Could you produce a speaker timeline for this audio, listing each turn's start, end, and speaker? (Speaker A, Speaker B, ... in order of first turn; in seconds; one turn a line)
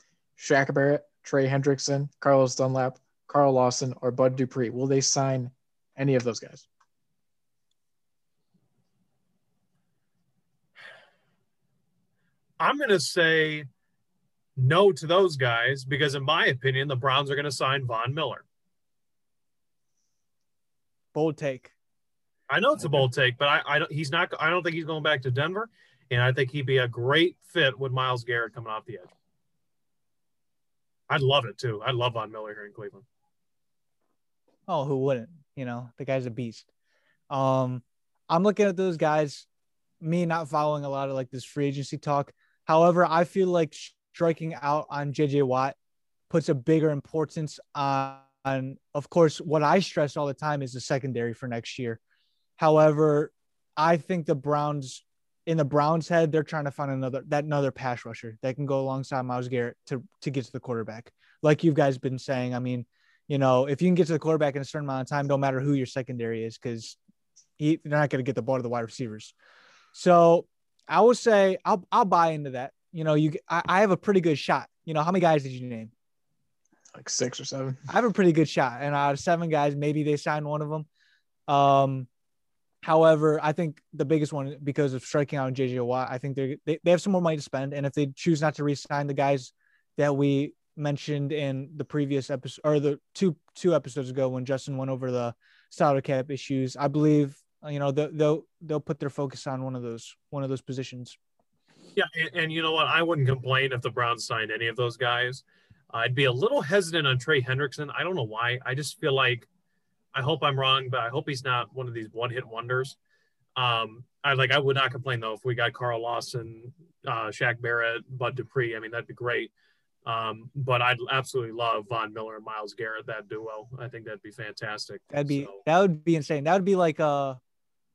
Speaker A: 0.4-6.7
Speaker B: 12.6-13.7
Speaker B: 14.6-18.4
Speaker C: 21.1-21.7
Speaker B: 22.5-29.1
Speaker B: 31.1-33.0
Speaker C: 34.7-36.7
Speaker C: 37.3-39.5
Speaker C: 40.0-45.8
Speaker C: 46.3-52.0
Speaker C: 52.6-67.0
Speaker C: 67.6-69.3
Speaker C: 69.9-75.9
Speaker A: 77.0-77.8
Speaker C: 77.9-80.9
Speaker C: 81.5-82.1
Speaker C: 82.8-101.2
Speaker B: 102.0-109.5
Speaker B: 110.1-113.0
Speaker B: 113.6-119.5
Speaker B: 120.0-125.6
Speaker C: 125.1-127.4